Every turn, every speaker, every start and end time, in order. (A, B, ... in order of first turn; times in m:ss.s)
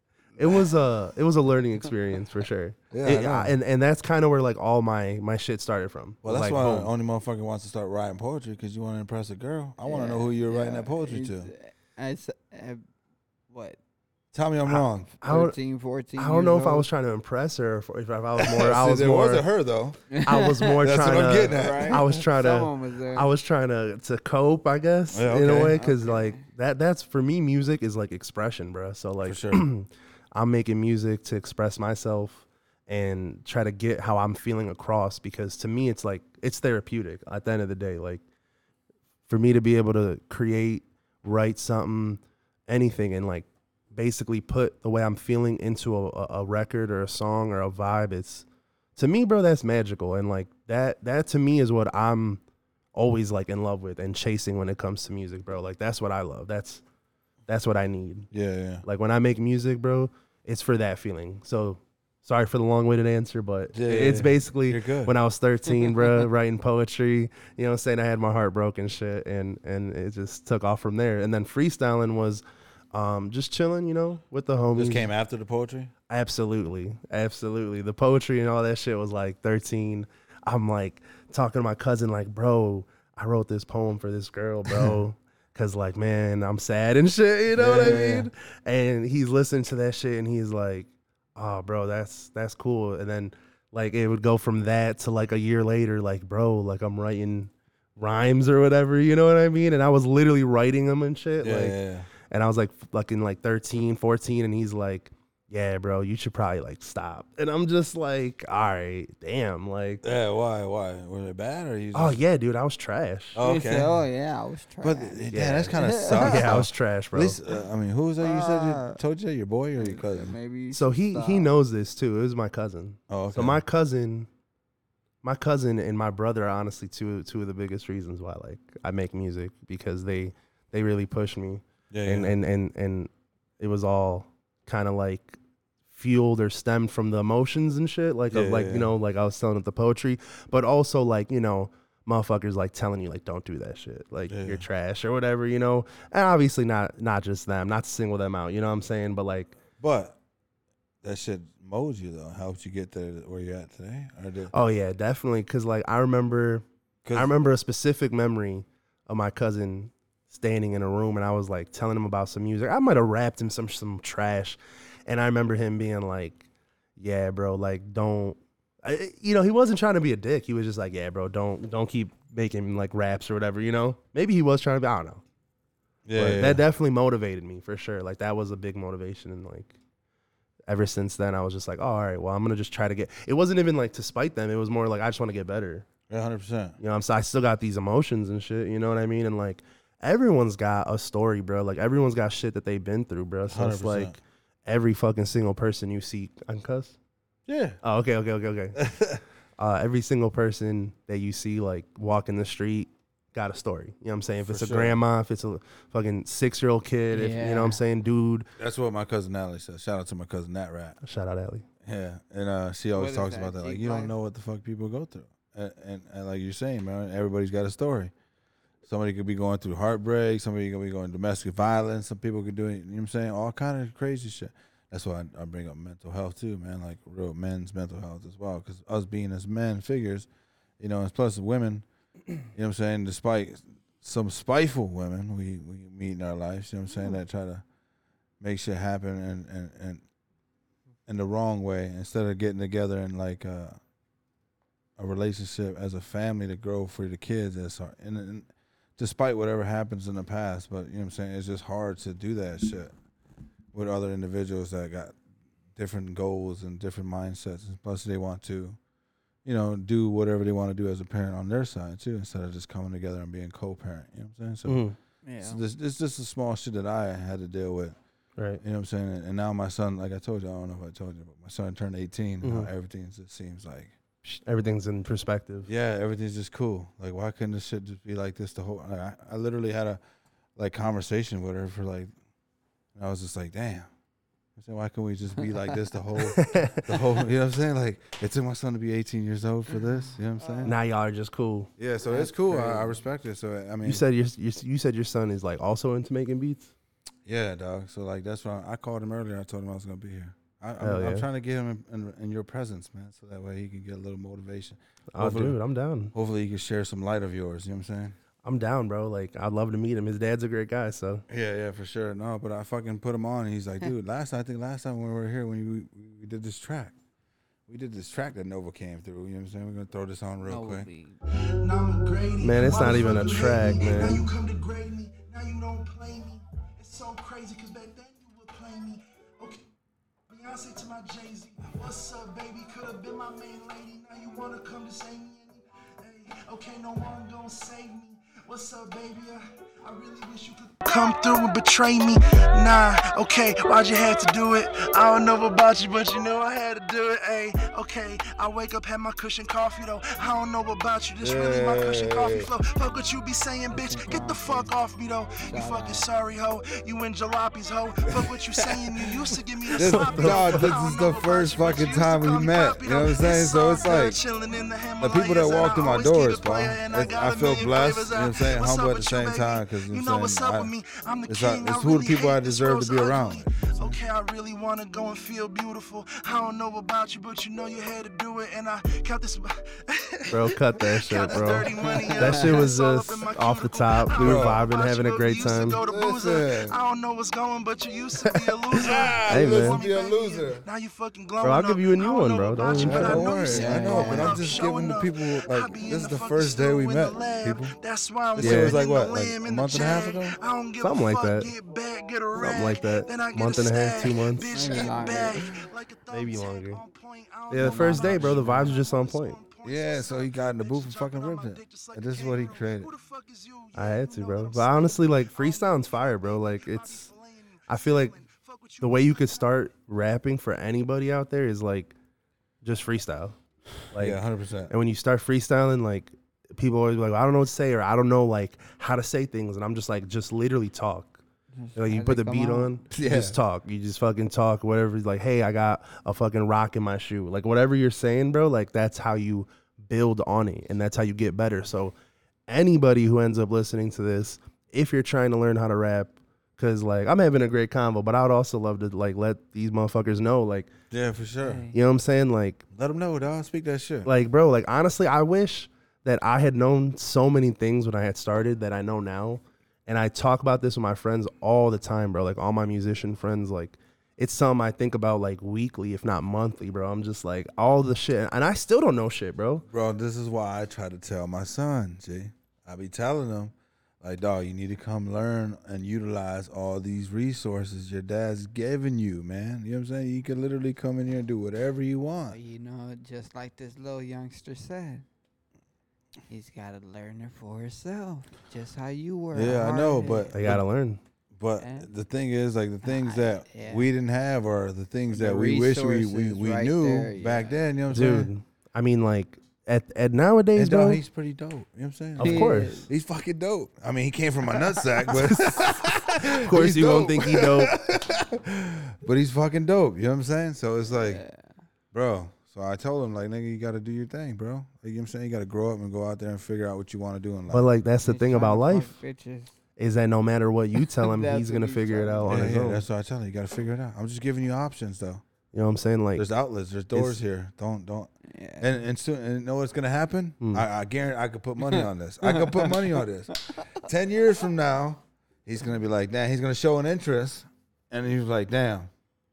0:00.4-0:06.9 A
0:02.9-0:03.5 B
0:06.2-0:11.5 B
0:09.8-0:12.8 C
0:13.5-0:13.8 C
0:14.3-0:15.1 B
0:14.6-0:15.6 A
0:15.2-0:16.9 C
0:16.2-0:19.4 A
0:18.4-0:20.0 B
0:20.1-0:20.8 C
0:20.2-0:38.2 A
0:20.8-0:22.1 B
0:21.4-0:23.3 C
0:25.1-0:25.8 B
0:25.4-0:26.4 C
0:29.2-0:29.7 B
0:39.3-0:48.4 A
0:49.0-0:52.4 A
0:52.9-0:56.8 A
0:57.5-0:58.3 A
0:58.3-0:58.8 B
0:58.8-1:15.1 A
1:03.7-1:05.1 B
1:14.7-1:15.9 B
1:16.1-1:50.0 A
1:24.7-1:25.0 B
1:27.5-1:28.3 B
1:41.4-1:42.1 B
1:50.0-1:52.2 B
1:51.9-1:53.4 A
1:53.3-1:54.0 B
1:53.4-1:56.5 C
1:54.8-2:00.3 B
1:55.3-1:57.4 A
1:58.2-1:59.0 C
1:59.8-2:01.5 C
2:00.7-2:04.3 A
2:03.1-2:03.6 B
2:05.2-2:15.4 A
2:11.9-2:12.3 B
2:15.9-2:29.6 A
2:18.3-2:18.9 B
2:24.3-2:24.6 B
2:29.8-2:30.2 B
2:31.0-2:34.5 B
2:34.5-2:46.4 A
2:37.0-2:37.3 B
2:47.0-2:55.2 A
2:56.0-2:56.6 B
2:56.1-2:59.7 A
3:00.7-3:05.9 A
3:06.1-3:06.8 B
3:06.8-3:17.0 A
3:13.5-3:14.2 B
3:17.5-3:17.8 B
3:17.8-3:18.8 A
3:18.8-3:19.2 B
3:19.6-3:28.5 A
3:24.4-3:25.0 B
3:27.1-3:27.8 C
3:28.6-3:31.0 B
3:31.0-3:31.6 A
3:31.8-3:38.1 B
3:32.9-3:34.1 C
3:38.8-3:50.3 B
3:50.8-3:51.8 B
3:52.5-3:57.6 B
3:58.4-4:00.0 B
4:01.1-4:03.8 B
4:05.0-4:12.9 B
4:13.7-4:15.2 B
4:15.8-4:18.8 B
4:19.4-4:24.8 B
4:24.6-4:25.0 A
4:25.2-4:25.6 C
4:25.4-4:28.0 B
4:28.6-4:33.9 B
4:32.4-4:32.7 A
4:34.2-4:35.7 A
4:35.7-4:40.0 B
4:40.6-4:42.1 B
4:42.9-4:43.9 B
4:44.6-4:50.8 B
4:46.3-4:47.0 A
4:50.4-4:50.8 C
4:50.6-4:51.7 A
4:51.8-4:54.0 B
4:52.0-4:53.0 C
4:53.8-4:56.7 A
4:57.2-5:05.6 B
5:00.8-5:01.3 A
5:05.1-5:06.1 A
5:06.1-5:08.2 B
5:08.4-5:11.2 A
5:11.3-5:16.9 B
5:17.7-5:20.9 B
5:20.4-5:21.2 C
5:21.6-5:29.6 D
5:22.4-5:24.2 A
5:30.3-6:59.4 D
5:51.2-5:52.5 B
5:53.7-5:54.7 C
5:55.4-5:56.1 C
5:59.7-6:04.2 B
5:59.8-6:00.8 A
6:05.0-6:10.7 B
6:11.3-6:14.0 B
6:20.3-6:25.8 A
6:21.7-6:22.7 C
6:24.2-6:24.6 B
6:25.8-6:26.8 B
6:28.2-6:29.8 A
6:28.8-6:30.6 B
6:31.4-6:33.4 A
6:32.7-6:37.7 B
6:33.3-6:34.5 C
6:38.3-6:40.4 B
6:38.4-6:38.8 A
6:40.8-6:41.5 A
6:42.3-6:44.5 A
6:44.5-6:45.6 C
6:46.1-6:46.8 A
6:47.5-6:49.4 A
6:47.6-6:48.8 C
6:49.6-6:52.9 B
6:53.7-6:57.1 A
6:57.7-6:58.2 A
6:58.8-7:01.9 A
7:02.6-7:03.4 A
7:03.9-7:11.2 A
7:03.9-7:04.7 B
7:11.5-7:12.8 C
7:11.8-7:21.9 A
7:12.9-7:13.4 B
7:22.5-7:30.7 A
7:30.9-7:31.7 B
7:31.4-7:31.7 C
7:31.7-7:32.6 A
7:32.7-7:34.1 B
7:34.0-7:49.6 A
7:49.7-8:02.4 B
8:02.3-8:05.0 C
8:06.3-8:10.4 C
8:09.3-8:10.6 B
8:10.3-8:11.0 A
8:11.3-8:18.3 B
8:11.6-8:11.9 C
8:12.8-8:13.9 C
8:15.1-8:17.6 C
8:17.9-8:21.0 A
8:20.6-8:31.2 B
8:22.2-8:22.8 A
8:22.2-8:22.9 C
8:25.1-8:27.7 A
8:30.9-8:31.5 C
8:31.9-8:37.7 B
8:37.5-8:38.9 A
8:38.0-8:39.5 C
8:39.8-8:42.8 A
8:40.9-8:42.4 C
8:42.2-8:45.2 B
8:45.5-8:46.3 A
8:46.2-8:58.9 B
8:46.9-8:47.2 A
8:48.3-8:48.7 C
8:50.4-8:50.6 A
8:51.6-8:53.0 C